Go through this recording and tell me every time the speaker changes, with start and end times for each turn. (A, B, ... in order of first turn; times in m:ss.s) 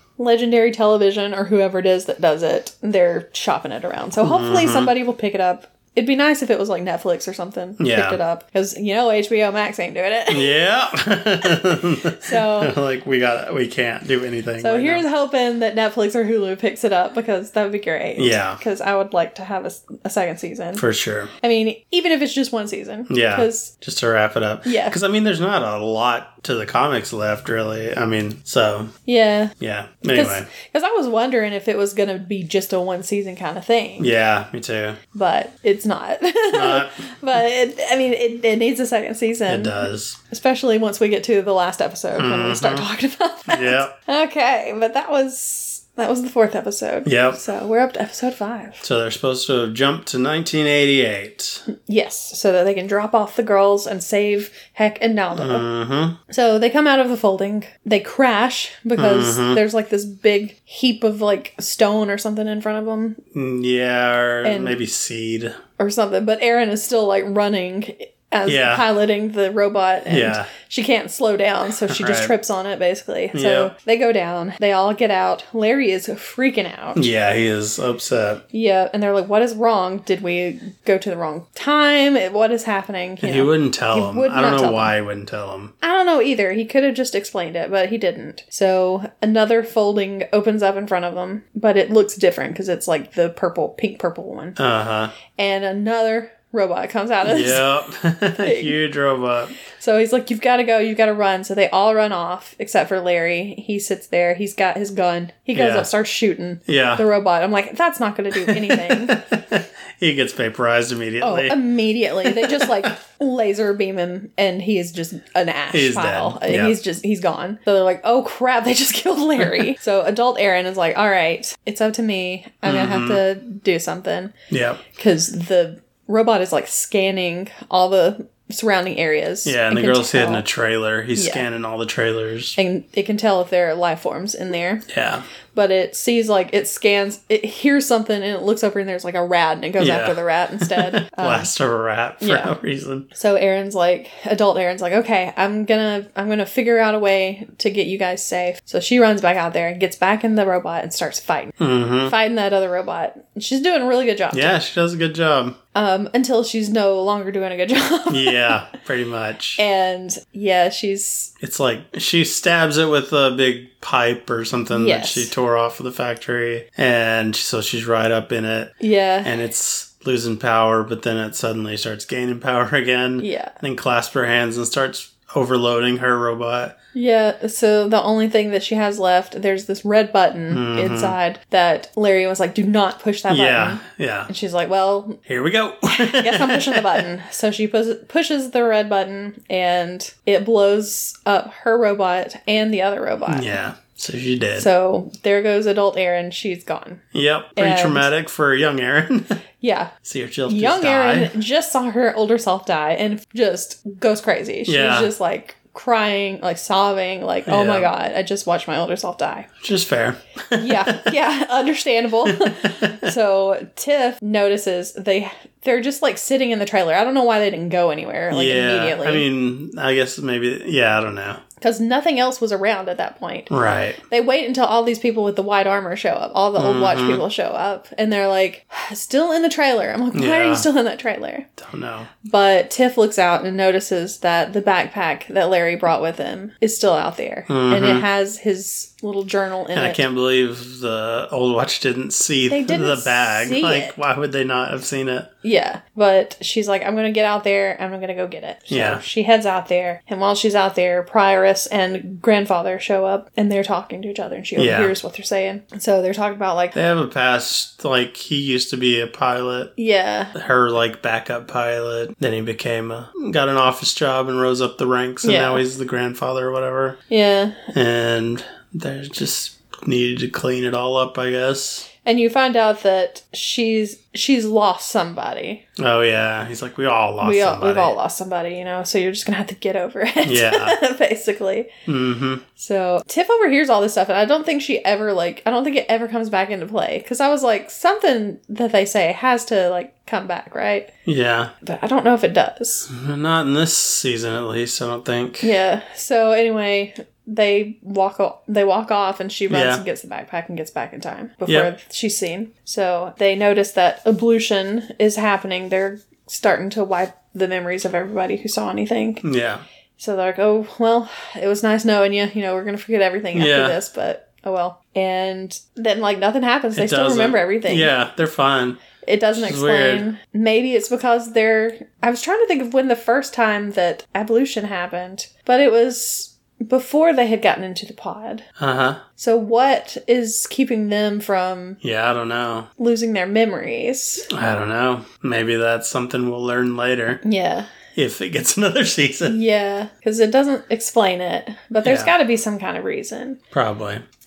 0:00.2-0:10.6 A
0:04.2-0:04.9 B
0:07.8-0:08.2 B
0:10.3-0:15.0 B
0:11.5-0:12.7 A
0:14.6-0:20.8 A
0:18.2-0:18.6 B
0:20.8-0:21.3 B
0:21.4-0:23.7 A
0:23.1-0:28.9 B
0:24.6-0:25.0 A
0:29.1-0:29.5 A
0:29.6-0:30.5 B
0:30.1-0:34.1 A
0:34.0-0:35.0 B
0:35.1-0:48.8 A
0:36.5-0:37.1 B
0:39.5-0:40.2 B
0:42.2-0:42.9 B
0:43.5-0:43.9 B
0:47.0-0:47.4 B
0:48.8-0:51.6 B
0:51.7-0:55.6 A
0:55.3-0:56.2 B
0:56.3-1:03.2 A
0:59.0-0:59.6 B
1:03.3-1:05.6 B
1:04.4-1:04.8 A
1:05.8-1:17.1 A
1:08.5-1:08.9 B
1:10.1-1:10.5 B
1:11.9-1:12.3 B
1:13.3-1:13.7 B
1:17.0-1:18.4 B
1:18.5-1:24.9 A
1:23.2-1:25.7 B
1:25.8-1:34.6 A
1:34.6-1:35.1 B
1:35.3-1:37.7 A
1:37.2-1:39.6 B
1:38.4-1:38.8 A
1:39.8-1:49.2 A
1:45.5-1:45.9 B
1:46.7-1:47.0 B
1:48.4-1:51.6 B
1:51.2-2:04.3 A
1:52.2-1:52.9 B
1:55.7-1:56.8 B
2:02.6-2:03.2 B
2:04.5-2:04.8 B
2:04.9-2:10.4 A
2:09.4-2:12.6 B
2:11.2-2:11.4 A
2:12.6-2:14.9 A
2:14.9-2:15.2 B
2:15.5-2:21.5 A
2:19.8-2:23.1 B
2:22.2-2:22.5 A
2:23.1-2:34.6 A
2:31.6-2:32.1 B
2:34.3-2:35.6 B
2:35.7-2:38.6 A
2:38.1-2:39.6 B
2:39.6-2:41.3 A
2:41.4-2:56.8 B
2:44.7-2:45.3 A
2:48.8-2:49.4 A
2:53.2-2:53.5 A
2:56.9-3:05.2 A
3:00.5-3:01.2 B
3:03.3-3:04.3 B
3:05.3-3:07.1 B
3:05.9-3:13.5 A
3:13.3-3:14.7 B
3:14.6-3:17.0 A
3:17.1-3:19.4 B
3:17.6-3:18.1 A
3:19.6-3:19.9 A
3:20.0-3:21.4 B
3:20.5-3:29.6 A
3:24.7-3:25.1 B
3:27.5-3:27.9 B
3:29.6-3:31.1 B
3:30.6-3:39.2 A
3:32.3-3:33.1 B
3:38.3-3:41.4 B
3:41.6-3:43.5 A
3:43.5-3:44.0 B
3:44.1-3:51.5 A
3:46.6-3:47.2 B
3:50.1-3:50.7 B
3:51.6-3:52.1 B
3:52.2-4:00.0 A
3:57.5-3:58.1 B
3:59.7-4:05.3 B
4:02.5-4:04.0 A
4:05.4-4:16.8 A
4:08.7-4:09.0 B
4:14.6-4:14.9 B
4:16.7-4:19.7 B
4:19.8-4:20.3 A
4:20.3-4:27.0 B
4:25.2-4:25.6 A
4:27.1-4:27.7 A
4:27.7-4:31.9 B
4:32.0-4:35.6 A
4:35.8-4:37.9 B
4:37.2-4:41.7 A
4:40.2-4:40.8 B
4:41.9-4:42.4 B
4:42.6-4:50.9 A
4:51.1-4:51.5 B
4:51.6-4:52.9 A
4:52.9-4:55.5 B
4:55.4-5:09.2 A
4:59.5-4:59.8 B
5:09.2-5:09.6 B
5:10.0-5:17.9 A
5:13.3-5:13.8 B
5:16.8-5:18.8 B
5:19.0-5:28.5 A
5:19.4-5:20.1 B
5:28.6-5:29.0 B
5:29.2-5:31.8 A
5:31.8-5:32.7 B
5:32.8-5:34.3 A
5:34.3-5:37.2 B
5:37.2-5:37.7 A
5:38.0-5:39.4 B
5:39.3-5:43.4 A
5:41.8-5:42.1 B
5:43.5-5:44.0 B